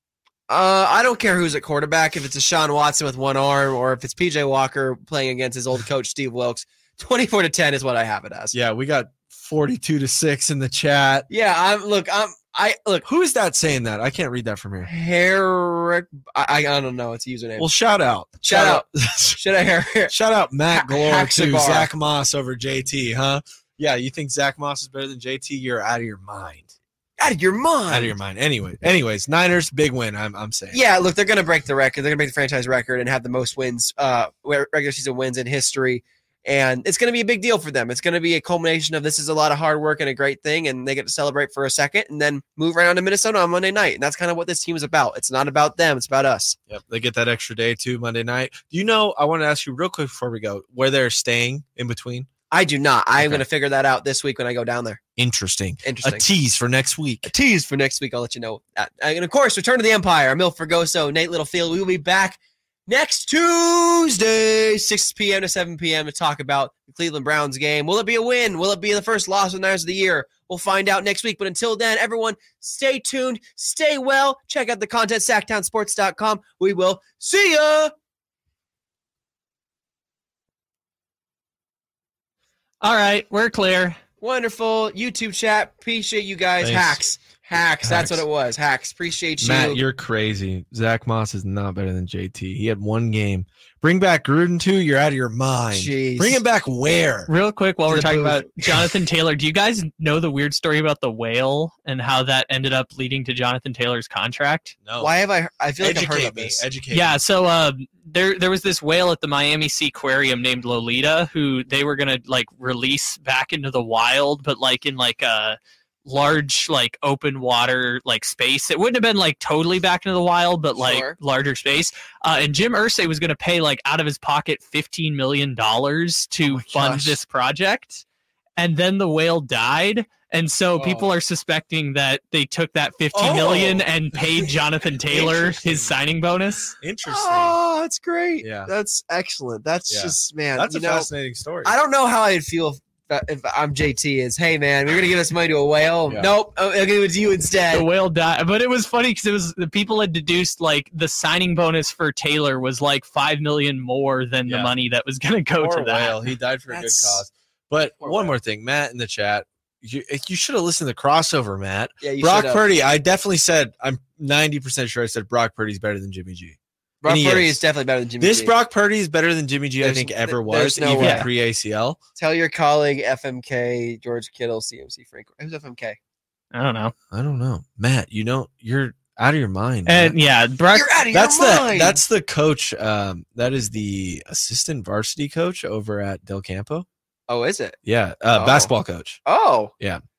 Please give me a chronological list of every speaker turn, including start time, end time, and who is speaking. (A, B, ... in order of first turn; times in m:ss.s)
0:00.5-0:08.5 A
0:08.5-0:11.3 B
0:11.3-0:13.0 A
0:13.0-0:14.9 B
0:14.8-0:17.7 A
0:17.6-0:19.4 B
0:18.4-0:20.1 A
0:20.1-0:26.7 B
0:20.7-0:21.9 A
0:27.2-0:28.1 A
0:27.9-0:30.8 B
0:30.7-0:46.6 A
0:46.7-0:52.3 B
0:52.5-0:55.0 A
0:53.2-0:53.4 B
0:55.2-0:57.3 B
0:55.8-0:56.2 A
0:57.2-1:17.9 A
1:22.8-1:24.0 C
1:24.2-1:29.8 A
1:26.6-1:27.0 B
1:27.8-1:28.2 B
1:29.4-1:37.3 B
1:35.7-1:36.4 A
1:37.3-1:44.8 C
1:37.9-1:38.9 B
1:44.8-1:45.1 B
1:45.0-1:46.6 A
1:45.8-1:47.2 B
1:46.9-2:08.0 C
2:00.8-2:01.2 A
2:06.5-2:07.2 A
2:08.6-2:16.8 C
2:10.8-2:11.1 A
2:13.1-2:13.9 B
2:15.1-2:15.9 B
2:16.8-2:17.6 B
2:17.0-2:21.1 A
2:18.4-2:18.7 B
2:19.9-2:21.7 B
2:21.6-2:27.8 A
2:26.1-2:26.3 B
2:27.7-2:36.3 C
2:34.4-2:34.7 B
2:35.6-2:47.6 B
2:36.7-2:37.2 A
2:38.0-2:38.3 A
2:42.0-2:42.6 A
2:47.0-2:48.5 A
2:48.2-2:52.0 B
2:49.8-2:51.3 A
2:51.0-2:51.3 C
2:52.2-2:56.0 A
2:56.5-2:56.9 C
2:57.1-3:00.2 B
2:59.8-3:00.9 C
3:00.7-3:02.0 A
3:01.1-3:06.8 B
3:07.3-3:07.8 A
3:07.8-3:09.2 B
3:08.3-3:08.7 A
3:09.2-3:09.7 A